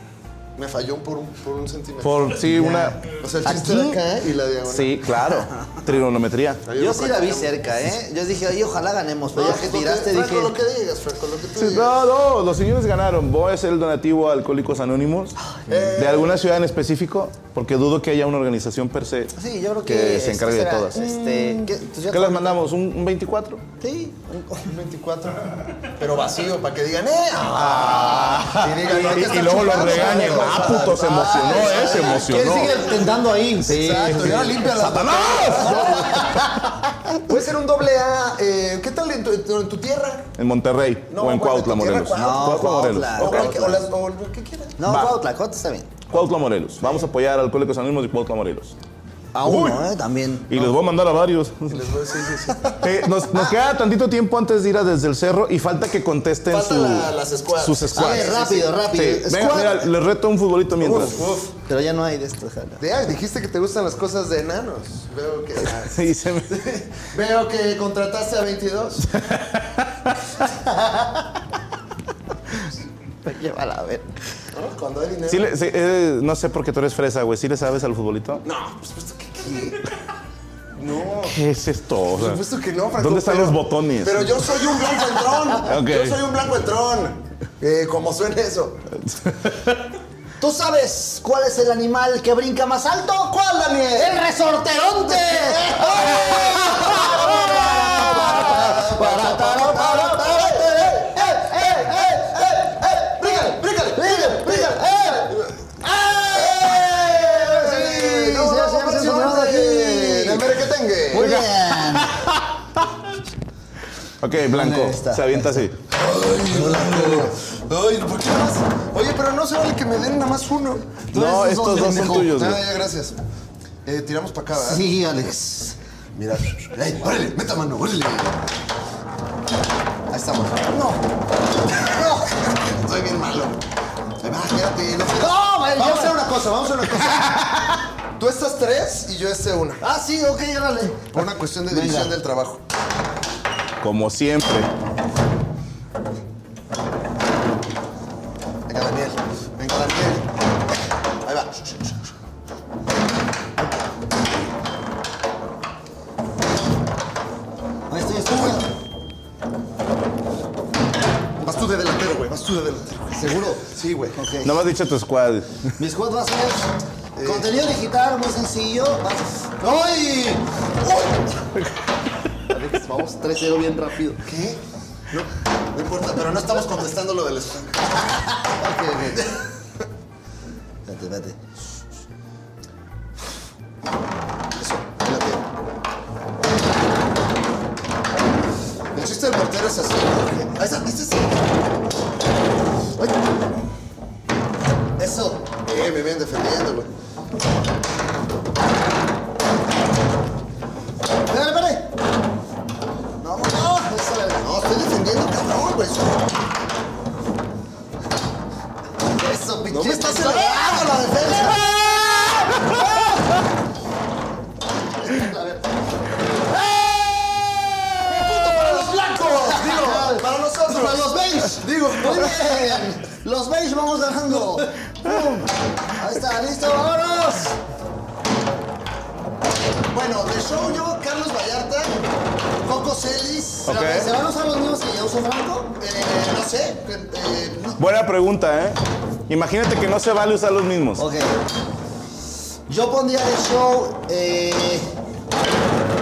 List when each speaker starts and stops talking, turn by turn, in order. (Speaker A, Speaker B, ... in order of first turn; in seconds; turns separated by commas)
Speaker A: 0.6-2.3, Speaker B: 2.0-4.0, Speaker C: 2.4-3.0, Speaker A: 3.1-5.0, Speaker B: 4.7-6.6, Speaker A: 6.6-7.5, Speaker C: 6.7-10.5, Speaker A: 9.3-12.0, Speaker B: 11.6-15.3, Speaker C: 15.4-16.0, Speaker A: 15.7-16.4, Speaker B: 15.9-19.3, Speaker C: 19.3-22.6, Speaker B: 19.8-21.1, Speaker A: 21.0-21.7, Speaker B: 22.1-23.6, Speaker C: 23.8-24.8, Speaker A: 24.6-36.3, Speaker B: 27.5-32.7, Speaker C: 29.6-37.2, Speaker B: 34.3-36.5, Speaker A: 37.2-40.3, Speaker B: 40.4-43.5, Speaker A: 41.1-44.8, Speaker C: 42.1-43.8, Speaker C: 44.8-45.9, Speaker B: 44.9-45.2, Speaker B: 46.1-48.8, Speaker C: 49.3-50.7, Speaker B: 49.4-49.9, Speaker B: 50.5-51.9, Speaker A: 51.7-52.9, Speaker B: 52.8-61.4, Speaker A: 56.5-58.7, Speaker C: 57.9-59.9, Speaker A: 60.8-61.5, Speaker C: 61.6-62.8, Speaker A: 62.8-69.1, Speaker B: 65.6-66.9, Speaker B: 69.1-70.2, Speaker C: 70.7-71.1, Speaker C: 73.2-74.1, Speaker A: 74.5-75.5, Speaker B: 75.3-78.4, Speaker A: 78.4-79.8, Speaker A: 80.7-81.4, Speaker B: 81.2-82.4, Speaker A: 82.1-88.8, Speaker B: 83.0-84.5, Speaker B: 85.6-86.2, Speaker B: 89.2-89.7, Speaker C: 90.4-110.5, Speaker A: 93.3-94.2, Speaker A: 95.1-105.5, Speaker A: 106.3-111.4, Speaker C: 111.1-112.3, Speaker B: 111.2-112.8, Speaker B: 114.2-115.8, Speaker C: 114.5-115.7, Speaker A: 115.9-121.0, Speaker C: 116.4-117.3, Speaker C: 121.1-122.3, Speaker B: 121.1-122.6, Speaker A: 121.8-123.2, Speaker A: 123.8-124.8, Speaker C: 124.5-125.8, Speaker A: 126.1-128.5, Speaker A: 130.1-130.7, Speaker C: 130.7-131.0, Speaker A: 131.7-133.6, Speaker A: 134.2-137.5, Speaker C: 135.2-136.3, Speaker A: 138.2-139.8, Speaker C: 139.8-142.1, Speaker A: 141.1-142.6, Speaker B: 143.8-144.7, Speaker A: 148.7-150.3, Speaker A: 151.2-151.9, Speaker C: 157.9-158.7, Speaker A: 161.4-164.2, Speaker C: 163.1-164.6, Speaker B: 164.4-165.7, Speaker C: 165.8-171.1, Speaker A: 167.2-167.5, Speaker C: 172.5-174.2, Speaker A: 174.2-178.2, Speaker C: 178.4-179.4, Speaker C: 180.8-181.4, Speaker A: 184.5-185.5, Speaker A: 188.9-191.6, Speaker C: 195.0-195.5, Speaker A: 195.6-196.9, Speaker C: 201.3-201.9, Speaker C: 203.2-204.4, Speaker A: 204.4-206.3, Speaker C: 209.1-211.7, Speaker A: 209.7-211.9, Speaker C: 212.5-213.3, Speaker C: 215.0-215.7, Speaker C: 216.9-227.6, Speaker A: 218.2-222.8, Speaker B: 225.1-225.4, Speaker A: 229.9-232.0, Speaker A: 232.6-233.8, Speaker B: 233.7-234.1, Speaker C: 233.7-235.7, Speaker A: 235.8-237.8, Speaker B: 237.8-241.0, Speaker C: 241.0-241.4, Speaker C: 242.7-244.9